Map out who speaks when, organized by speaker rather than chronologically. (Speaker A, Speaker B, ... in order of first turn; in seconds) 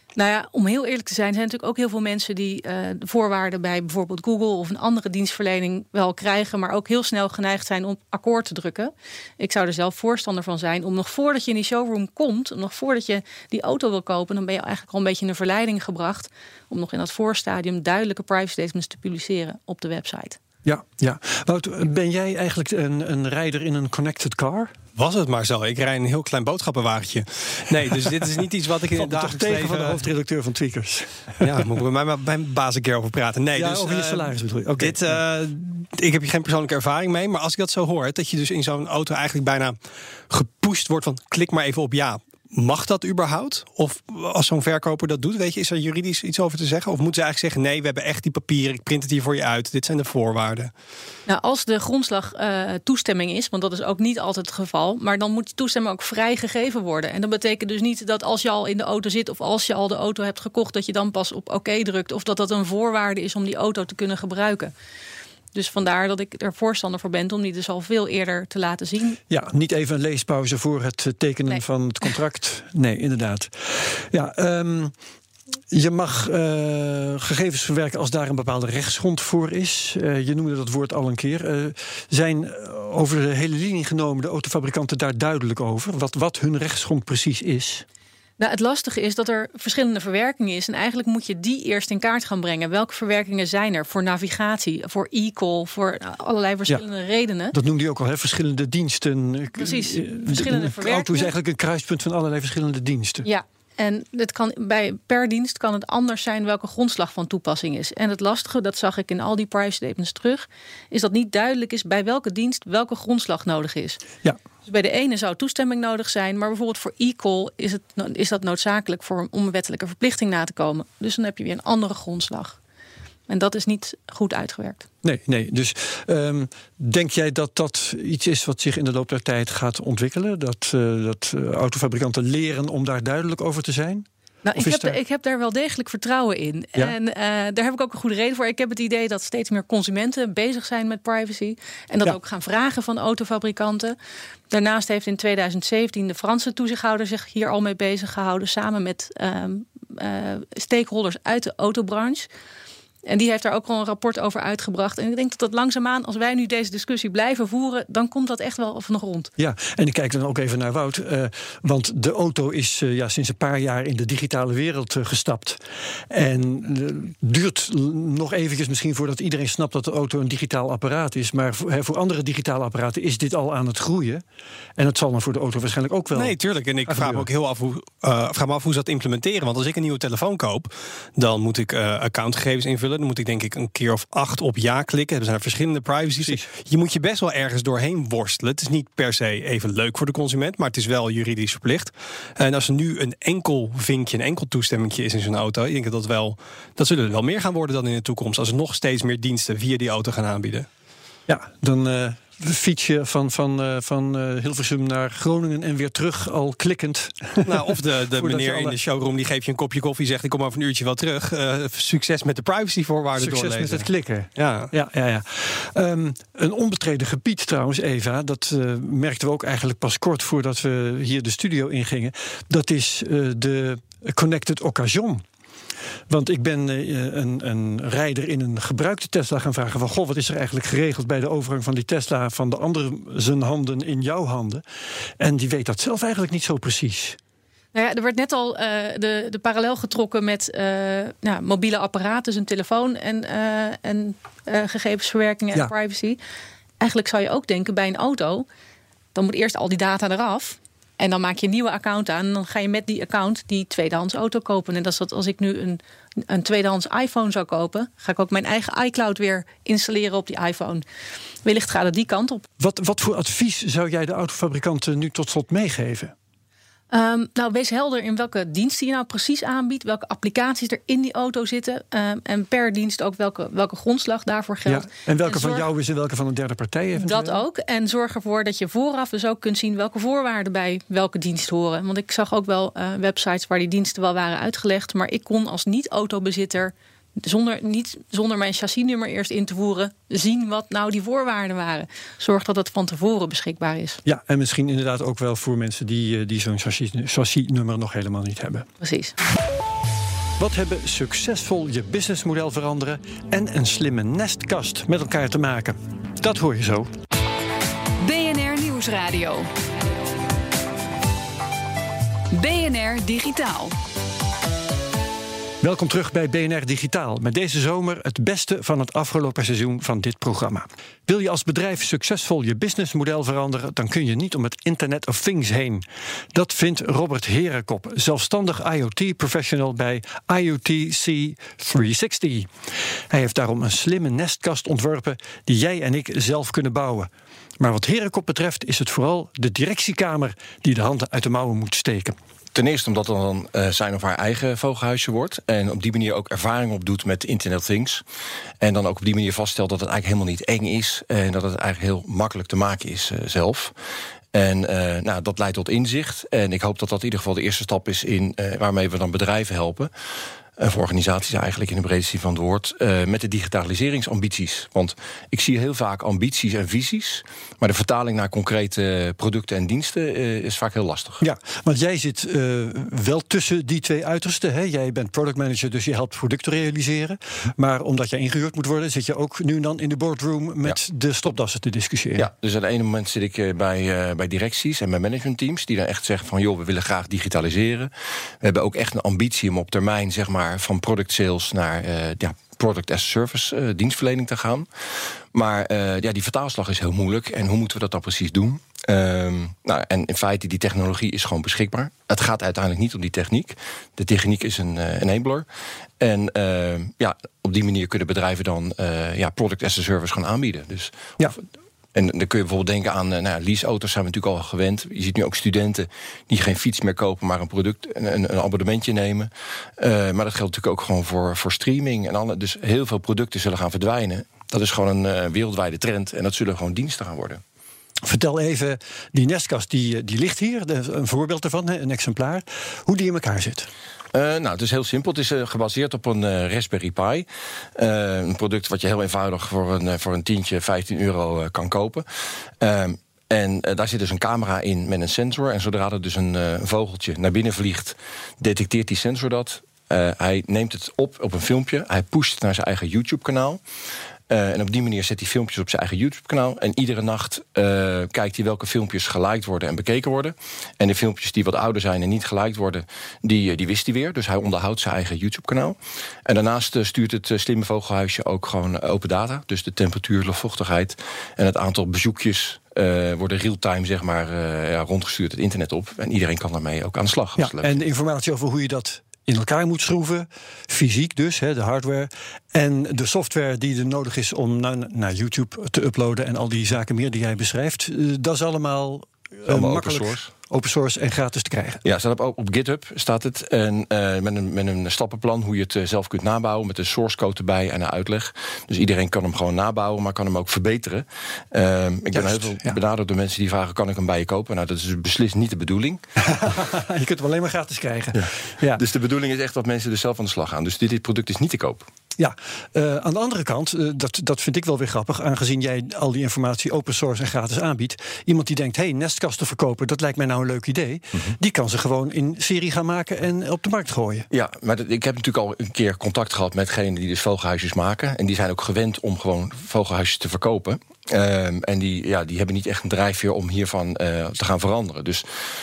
Speaker A: 0.2-20.4, 51.3-64.7, 65.5-69.2, 88.4-97.5, 99.5-101.3, 103.2-114.0, 114.7-122.6, 123.3-124.9, 134.4-144.0, 144.5-152.3, 153.1-159.3, 237.7-246.2, 246.8-248.5, 249.1-260.8, 261.4-262.4, 266.9-275.7, 277.0-294.0, 298.8-299.1
Speaker B: 20.6-24.7, 29.0-31.6, 33.6-35.2, 69.3-74.9, 75.7-87.8, 97.5-103.2, 125.0-135.0, 159.4-174.2, 174.8-177.3, 186.2-186.5, 201.3-208.8, 213.2-225.2, 226.1-234.6, 235.2-237.2, 262.6-266.1, 274.7-277.4, 294.1-298.7, 300.4-306.9, 315.6-332.5, 333.1-342.2, 371.2-382.3, 428.1-433.7, 477.4-491.8, 502.1-502.8, 506.3-508.8, 512.2-524.3
Speaker C: 24.9-30.0, 31.4-39.8, 40.3-50.7, 176.1-200.7, 207.4-214.7
Speaker D: 308.0-309.5, 312.3-313.8
Speaker E: 342.5-348.0, 348.6-353.7, 354.3-359.9, 360.6-371.2, 382.2-387.9, 388.4-394.7, 395.3-405.5, 406.0-411.4, 411.9-427.4, 434.1-442.1, 442.6-453.6, 454.3-477.8, 489.5-490.3, 491.8-506.1, 508.1-511.9, 524.3-535.3